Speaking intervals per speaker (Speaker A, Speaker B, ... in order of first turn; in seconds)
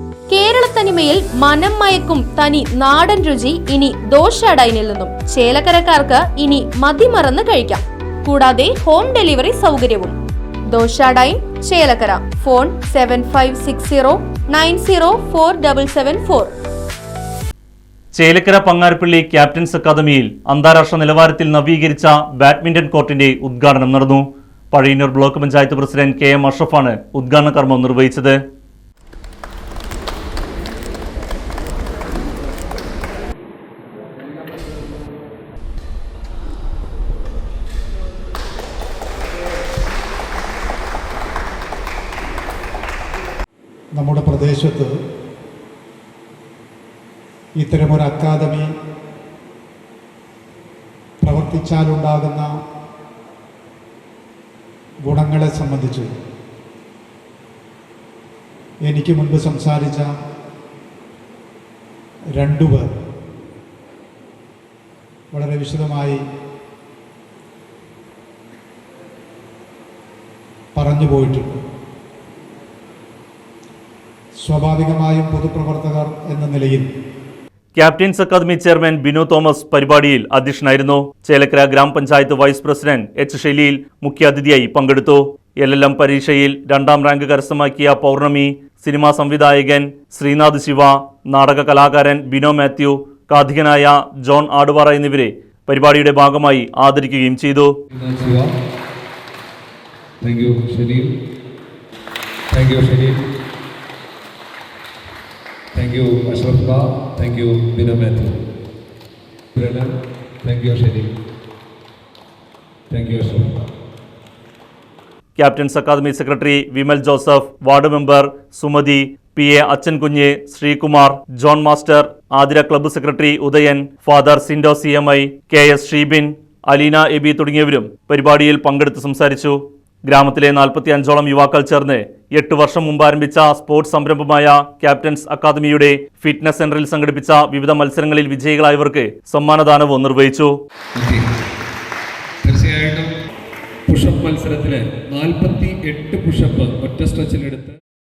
Speaker A: 0.3-10.2, 10.7-16.5
Speaker B: 18.1-28.4, 77.8-97.7, 115.4-140.5
Speaker C: 44.0-44.9, 47.6-48.7, 51.2-52.5, 55.0-56.1, 58.9-60.1, 62.4-62.9, 65.3-66.2, 70.8-71.5, 74.5-76.9
Speaker D: 97.9-98.5, 100.2-101.1, 102.5-103.2, 105.8-108.4, 109.6-111.1, 112.9-113.5, 140.9-141.2, 142.4-143.1, 143.9-147.8